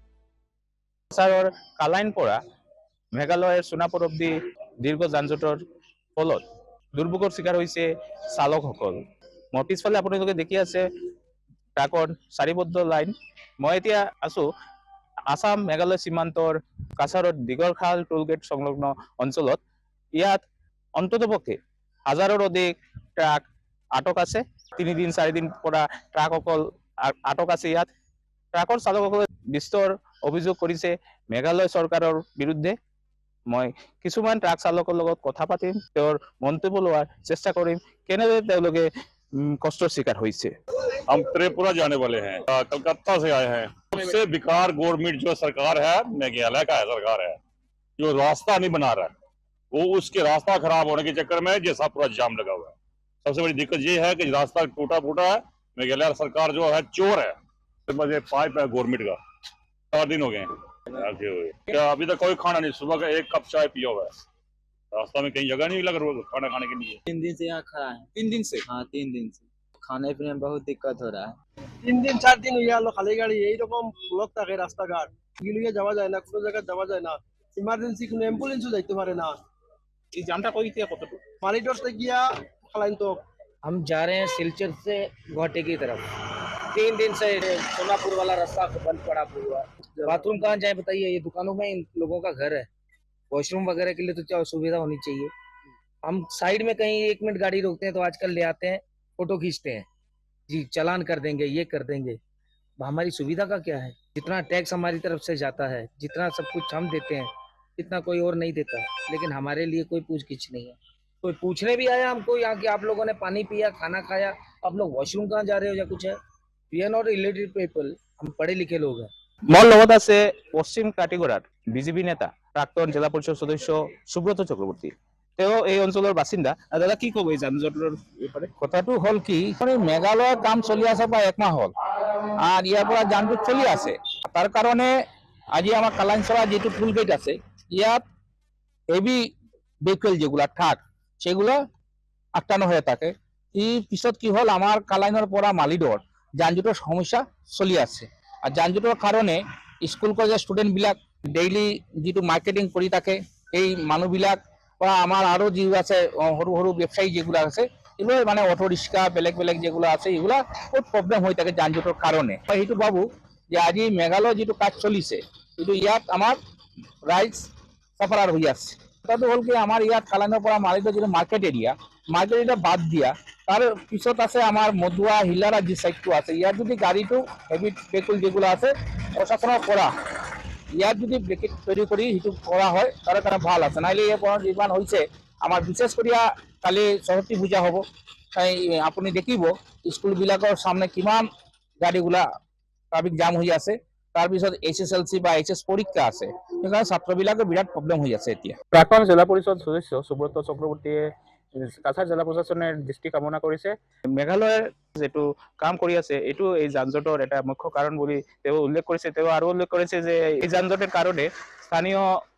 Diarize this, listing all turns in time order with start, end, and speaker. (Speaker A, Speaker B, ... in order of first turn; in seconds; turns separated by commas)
Speaker A: 1.1-2.4, Speaker A: 3.1-5.6, Speaker A: 6.2-6.4, Speaker A: 6.9-9.0, Speaker A: 9.5-10.8, Speaker A: 11.8-14.5, Speaker A: 15.3-19.6, Speaker A: 20.1-20.4, Speaker A: 20.9-27.9, Speaker A: 28.5-32.8, Speaker A: 33.5-40.5, Speaker B: 41.1-47.4, Speaker B: 48.0-49.1, Speaker B: 49.7-52.7, Speaker B: 53.2-57.4, Speaker B: 57.9-59.2, Speaker B: 59.9-64.2, Speaker B: 64.9-67.0, Speaker C: 67.1-68.1, Speaker A: 68.1-68.7, Speaker C: 68.6-71.3, Speaker D: 71.8-79.3, Speaker A: 80.1-81.2, Speaker D: 81.4-83.2, Speaker E: 83.7-86.0, Speaker E: 86.8-89.6, Speaker E: 90.2-92.6, Speaker E: 93.3-95.3, Speaker E: 96.0-99.8, Speaker E: 100.5-102.2, Speaker E: 102.8-107.3, Speaker E: 107.8-116.1, Speaker E: 116.7-119.0, Speaker A: 119.5-128.5, Speaker F: 128.6-131.7, Speaker F: 132.4-134.9, Speaker F: 135.5-138.0, Speaker F: 138.9-139.3, Speaker F: 139.8-141.6, Speaker F: 142.3-166.4, Speaker F: 167.1-179.9, Speaker F: 180.7-187.8, Speaker F: 188.3-191.3, Speaker F: 191.8-192.2, Speaker F: 192.9-198.6, Speaker A: 198.7-212.2